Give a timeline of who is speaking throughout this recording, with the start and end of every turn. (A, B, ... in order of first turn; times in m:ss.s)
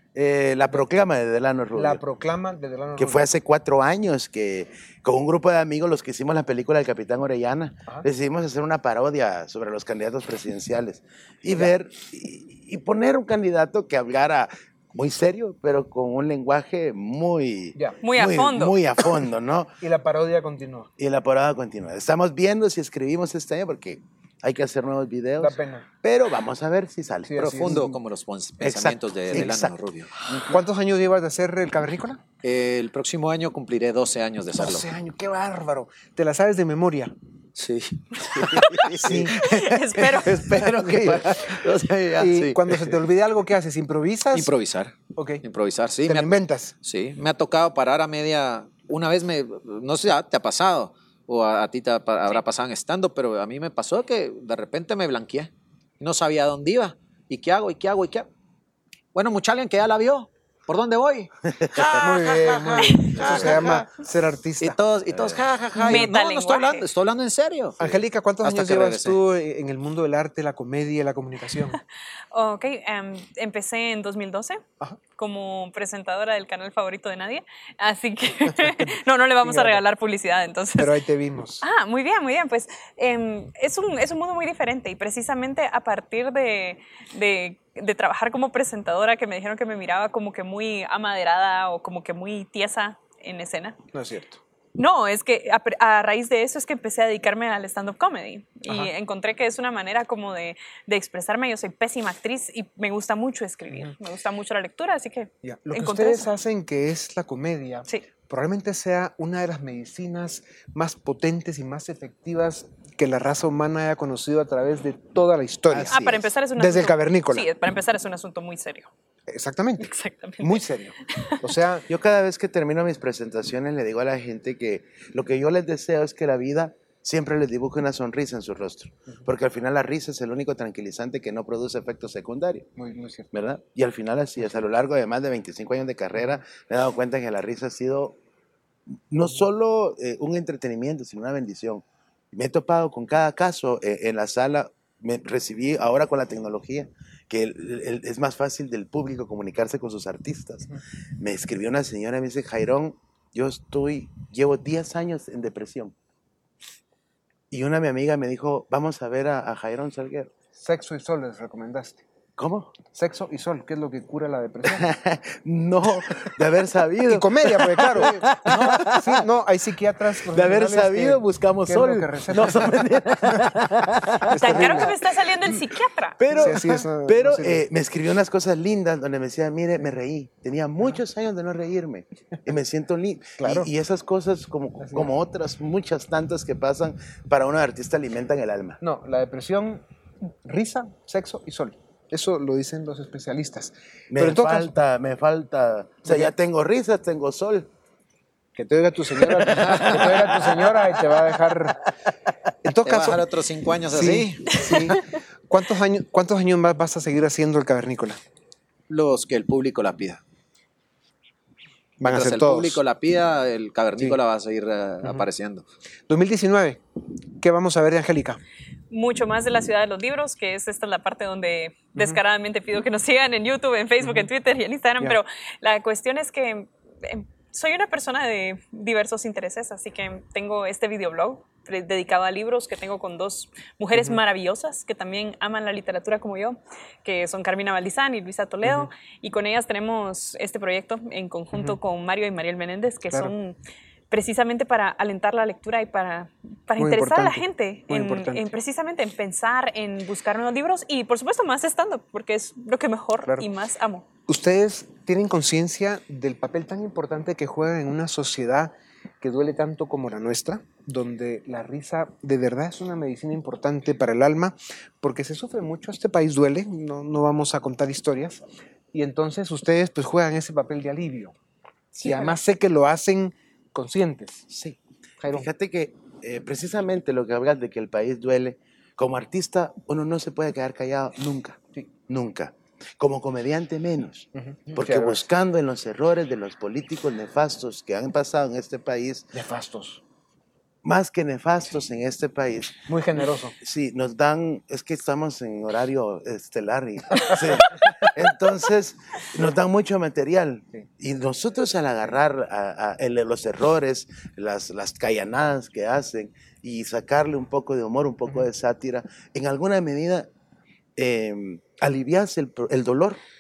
0:00.2-0:02.0 A
0:01.7-0:03.3 B
0:03.0-0:19.7 A
0:18.0-0:18.8 C
0:19.8-0:20.9 B
0:21.0-0:28.0 A
0:25.4-0:25.9 B
0:27.3-0:27.9 B
0:27.4-0:30.4 D
0:28.6-0:30.6 A
0:30.5-0:32.2 B
0:32.4-0:34.9 D
0:34.5-0:37.1 B
0:37.6-0:39.2 D
0:38.4-0:43.0 A
0:39.0-0:39.4 B
0:39.4-0:40.6 C
0:40.6-0:41.6 B
0:42.2-0:44.5 B
0:44.3-0:58.3 D
0:45.1-0:45.4 B
0:46.0-0:46.7 B
0:59.1-1:03.9 D
1:01.6-1:01.9 A
1:02.0-1:04.8 B
1:03.1-1:03.7 A
1:04.6-1:07.8 D
1:05.1-1:05.4 A
1:05.8-1:06.1 B
1:05.8-1:06.9 C
1:07.8-1:11.8 B
1:08.4-1:09.2 D
1:12.3-1:14.6 C
1:15.2-1:21.0 C
1:19.4-1:19.8 B
1:20.8-1:21.6 B
1:21.6-1:33.8 C
1:33.9-1:34.4 B
1:34.8-1:46.3 C
1:45.4-1:56.0 B
1:55.7-1:56.3 A
1:55.9-1:58.9 C
1:56.6-1:57.5 B
1:59.3-2:01.9 B
1:59.8-2:00.6 C
2:01.9-2:12.7 A
2:12.8-2:13.3 B
2:13.3-2:18.2 A
2:19.1-2:36.0 A
2:37.5-2:40.3 A
2:40.6-2:42.0 B
2:42.4-2:42.8 A
2:42.9-2:44.9 B
2:44.6-2:49.2 A
2:47.0-2:53.6 B
2:50.3-2:54.9 A
2:54.3-2:54.9 B
2:54.4-2:56.3 C
2:56.2-3:08.8 A
2:56.3-2:57.7 B
3:03.4-3:03.7 B
3:04.8-3:05.1 B
3:08.8-3:09.8 B
3:10.4-3:14.7 B
3:14.1-3:17.7 A
3:16.1-3:16.3 B
3:18.6-3:21.8 B
3:19.3-3:20.8 A
3:22.6-3:23.3 B
3:22.8-3:24.6 D
3:23.9-3:28.2 B
3:28.9-3:30.2 D
3:32.0-3:32.8 B
3:32.0-3:35.6 D
3:35.0-3:35.3 B
3:36.1-3:36.8 B
3:37.4-3:38.4 B
3:38.9-4:03.6 C
3:58.6-3:58.9 B
4:04.1-4:14.0 C
4:06.8-4:08.6 B
4:14.3-4:28.4 B
4:28.9-4:31.3 B
4:32.0-4:34.5 B
4:34.5-4:49.3 A
4:35.2-4:35.5 B
4:44.4-4:45.2 B
4:49.3-4:50.0 B
4:50.8-4:52.8 A
4:52.9-4:53.6 B
4:53.6-5:10.3 A
5:11.0-5:13.2 A